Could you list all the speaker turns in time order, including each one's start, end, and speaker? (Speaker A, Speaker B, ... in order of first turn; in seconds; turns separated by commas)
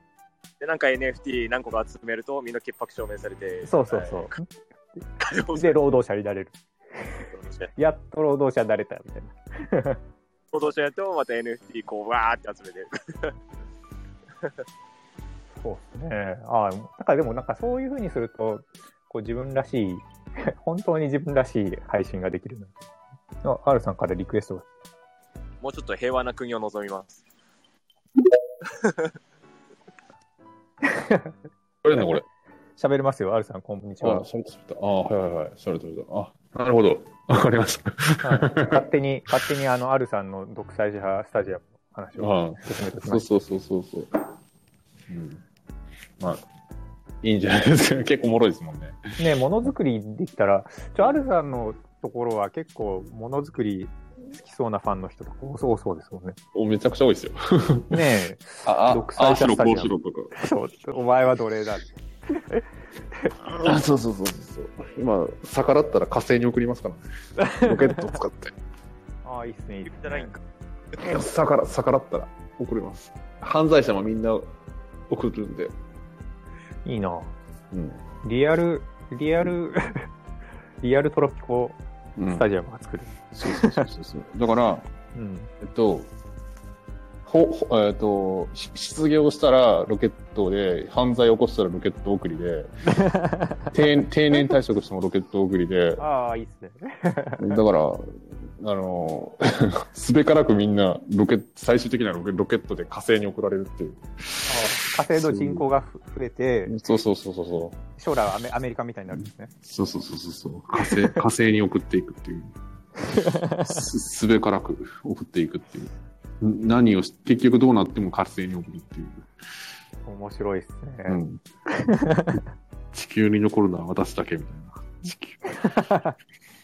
Speaker A: 0.6-4.2, Speaker B: 3.6-5.0, Speaker A: 5.2-5.8, Speaker B: 5.5-6.6, Speaker A: 7.3-7.7, Speaker B: 7.8-10.0, Speaker A: 10.5-13.4, Speaker B: 15.6-22.9, Speaker B: 23.4-24.7, Speaker A: 25.6-27.2, Speaker A: 28.6-29.1, Speaker B: 30.8-31.3, Speaker C: 31.8-32.2, Speaker B: 31.9-32.2, Speaker B: 32.8-34.2, Speaker C: 34.0-38.9, Speaker B: 38.2-43.3, Speaker C: 42.2-44.3, Speaker C: 45.1-45.4, Speaker C: 47.2-49.1, Speaker B: 49.2-56.4, Speaker C: 56.5-58.1, Speaker B: 57.9-63.4, Speaker C: 58.6-60.3, Speaker C: 63.4-68.5, Speaker B: 67.4-67.8, Speaker B: 69.2-70.3, Speaker A: 69.9-70.4, Speaker C: 71.0-74.5, Speaker C: 75.1-75.7, Speaker B: 76.8-77.3, Speaker C: 77.7-78.0, Speaker B: 78.2-80.1, Speaker B: 80.8-83.9, Speaker C: 82.2-82.5, Speaker C: 83.4-84.9, Speaker B: 85.2-85.5, Speaker C: 85.6-86.1, Speaker C: 87.3-92.9, Speaker B: 93.0-93.7, Speaker C: 93.7-96.0, Speaker B: 96.0-97.6, Speaker C: 97.4-105.7, Speaker B: 104.5-106.8, Speaker C: 106.7-107.8, Speaker B: 108.0-109.5, Speaker C: 109.2-112.5, Speaker B: 110.8-111.2, Speaker B: 113.1-113.8, Speaker C: 113.6-119.3, Speaker B: 120.1-122.4, Speaker C: 121.1-121.4, Speaker C: 122.9-125.8, Speaker B: 125.5-126.2